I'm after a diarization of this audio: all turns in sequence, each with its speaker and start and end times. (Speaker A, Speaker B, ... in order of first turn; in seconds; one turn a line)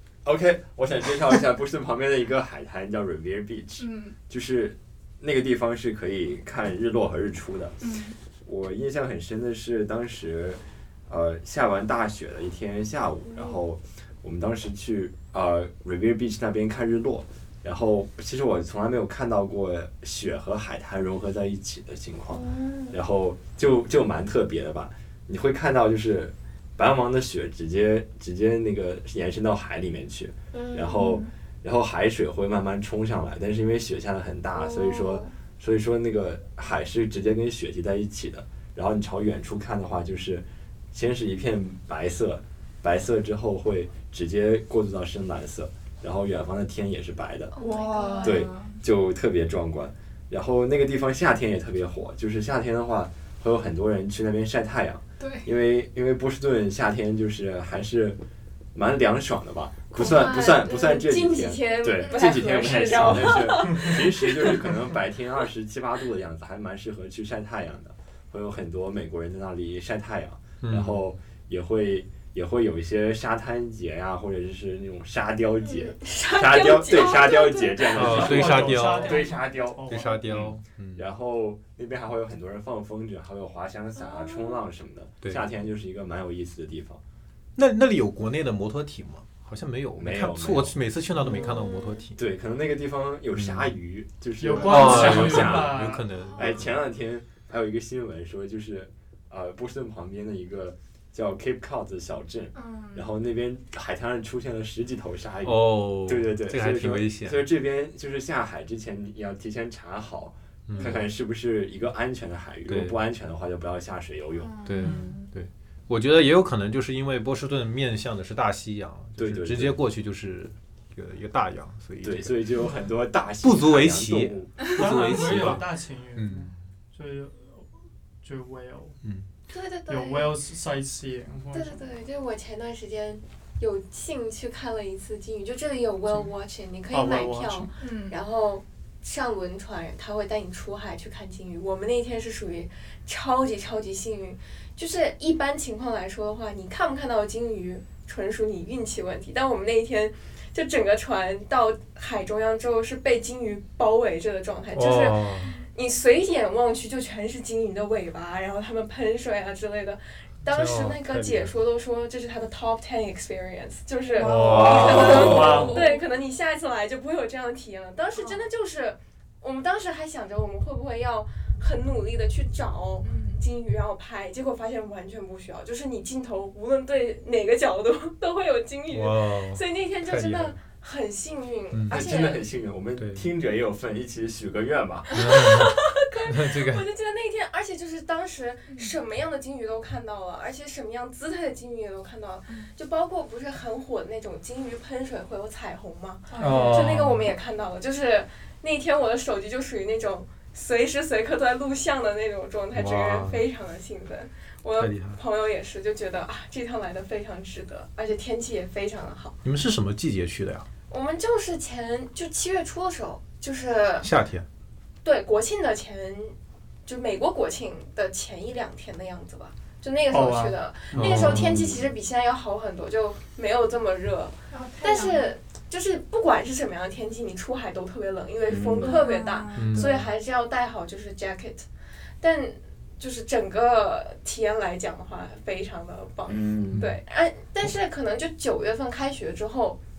Speaker A: 0.2-7.8
Speaker B: 3.8-4.2
Speaker B: 7.8-8.2
Speaker A: 8.4-47.5
Speaker C: 22.3-23.0
Speaker C: 30.5-31.2
Speaker C: 34.5-35.3
Speaker C: 47.5-48.5
Speaker B: 47.6-48.8
Speaker A: 48.2-58.2
Speaker B: 55.2-55.5
Speaker A: 58.7-87.0
Speaker C: 59.9-64.8
Speaker B: 61.9-62.5
Speaker D: 70.6-71.0
Speaker C: 75.6-79.3
Speaker D: 77.9-79.2
Speaker E: 78.0-80.2
Speaker D: 79.8-81.0
Speaker C: 84.0-84.6
Speaker D: 87.5-92.2
Speaker A: 89.9-90.8
Speaker C: 91.5-92.0
Speaker A: 92.2-114.7
Speaker D: 93.4-93.7
Speaker E: 94.4-96.0
Speaker D: 94.6-96.6
Speaker B: 102.5-103.1
Speaker D: 105.4-107.4
Speaker D: 110.7-111.0
Speaker D: 112.7-113.0
Speaker B: 114.4-115.2
Speaker D: 114.6-122.5
Speaker A: 119.2-119.8
Speaker A: 122.0-124.7
Speaker D: 123.4-126.6
Speaker E: 124.7-129.0
Speaker A: 125.2-125.6
Speaker D: 129.0-129.3
Speaker C: 129.5-130.4
Speaker E: 129.9-131.8
Speaker C: 131.5-182.4
Speaker E: 136.9-137.7
Speaker B: 137.8-138.2
Speaker D: 154.7-155.5
Speaker D: 160.5-161.5
Speaker B: 164.1-166.0
Speaker D: 164.2-165.6
Speaker E: 164.3-165.9
Speaker A: 164.6-165.7
Speaker B: 168.2-168.4
Speaker B: 173.0-173.4
Speaker D: 178.9-180.6
Speaker D: 181.7-182.0
Speaker A: 181.9-185.3
Speaker D: 183.0-183.3
Speaker D: 185.1-186.9
Speaker C: 185.1-209.3
Speaker B: 188.7-188.9
Speaker B: 196.3-196.9
Speaker D: 196.4-197.3
Speaker D: 202.7-203.4
Speaker D: 204.8-205.2
Speaker D: 209.4-210.7
Speaker C: 210.9-214.1
Speaker D: 214.0-214.5
Speaker C: 215.0-231.7
Speaker E: 220.1-221.2
Speaker D: 220.9-221.7
Speaker A: 221.2-221.9
Speaker B: 224.5-225.3
Speaker A: 228.5-229.0
Speaker B: 228.8-230.1
Speaker D: 229.6-229.9
Speaker C: 232.2-239.8
Speaker A: 236.3-236.9
Speaker D: 236.7-237.0